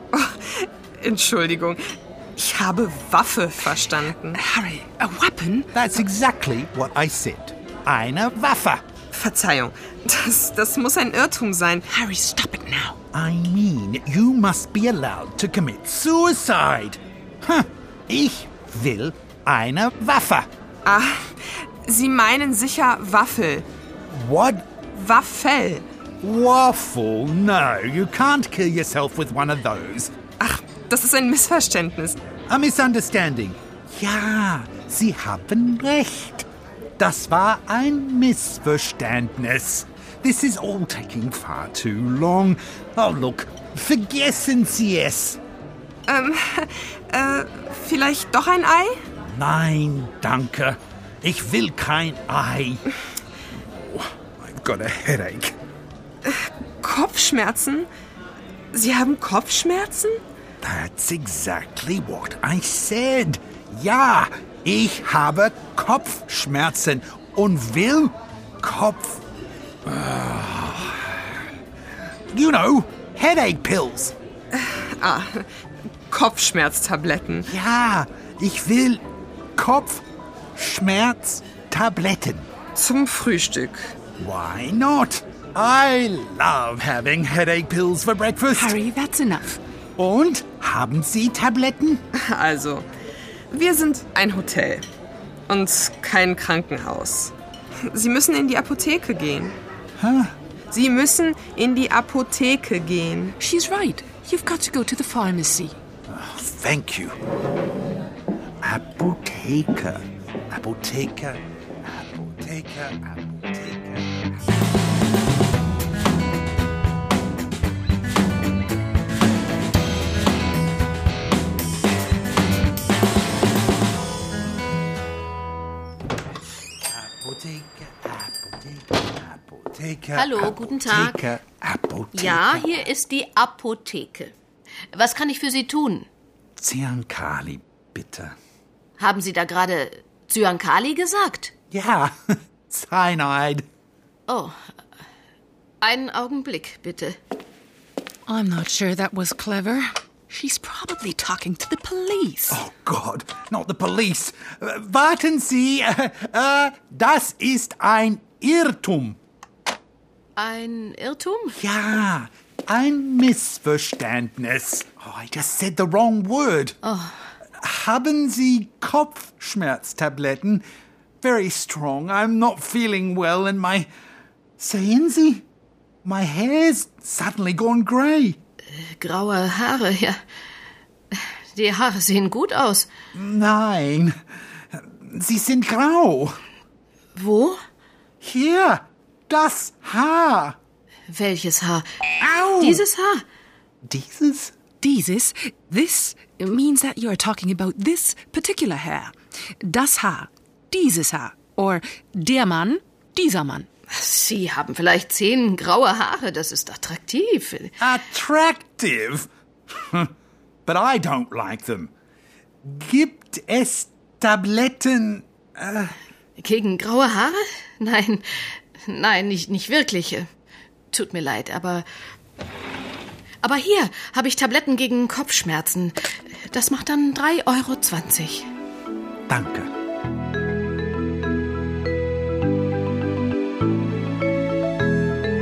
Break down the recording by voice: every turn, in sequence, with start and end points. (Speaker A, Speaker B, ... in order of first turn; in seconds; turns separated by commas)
Speaker A: 0.1-1.8, Speaker A: 2.4-4.4, Speaker B: 4.3-5.7, Speaker C: 5.7-8.8, Speaker A: 9.2-11.9, Speaker B: 11.9-13.0, Speaker C: 13.1-20.5, Speaker A: 20.9-23.7, Speaker C: 24.1-24.7, Speaker A: 24.9-25.9, Speaker C: 26.2-30.1, Speaker A: 30.4-32.2, Speaker C: 32.5-36.5, Speaker C: 37.0-45.4, Speaker A: 46.1-49.0, Speaker C: 49.2-52.8, Speaker C: 53.7-55.6, Speaker A: 56.2-57.9, Speaker A: 58.7-60.2, Speaker C: 60.6-69.2, Speaker C: 69.8-71.2, Speaker C: 72.3-74.2, Speaker A: 74.5-75.5, Speaker A: 76.1-77.5, Speaker C: 77.5-79.0, Speaker C: 79.6-82.5, Speaker A: 82.8-83.9, Speaker C: 84.2-88.8, Speaker B: 88.5-89.6, Speaker C: 90.0-92.0, Speaker A: 92.2-92.9, Speaker A: 93.5-94.9, Speaker A: 95.5-97.3, Speaker A: 97.9-99.6, Speaker C: 100.0-100.3, Speaker A: 100.7-103.4, Speaker B: 103.4-105.7, Speaker C: 106.1-107.2, Speaker C: 108.6-114.5, Speaker C: 126.9-132.9, Speaker D: 130.2-131.3, Speaker D: 132.1-134.3, Speaker D: 134.9-136.1, Speaker C: 136.6-138.4, Speaker D: 139.0-141.5, Speaker C: 141.7-142.1, Speaker C: 142.7-143.7, Speaker D: 144.3-144.6, Speaker D: 145.8-147.2, Speaker B: 148.3-152.6, Speaker C: 152.5-159.2, Speaker D: 160.4-161.6, Speaker C: 161.6-166.8, Speaker D: 166.8-167.3, Speaker C: 167.6-170.7, Speaker C: 171.2-173.9, Speaker C: 174.6-175.5, Speaker C: 176.1-178.4, Speaker D: 178.8-180.2, Speaker D: 181.5-182.9, Speaker C: 183.1-184.1, Speaker C: 184.7-186.4, Speaker D: 187.2-187.6, Speaker C: 188.2-190.6, Speaker D: 191.1-192.0, Speaker C: 192.2-192.8, Speaker D: 192.5-193.2, Speaker C: 193.9-194.5, Speaker B: 194.8-203.7, Speaker D: 203.9-207.8, Speaker C: 207.8-210.1, Speaker C: 210.7-211.9, Speaker C: 212.6-215.9, Speaker D: 216.4-220.3, Speaker D: 220.9-221.9, Speaker D: 223.4-228.5, Speaker C: 229.3-229.7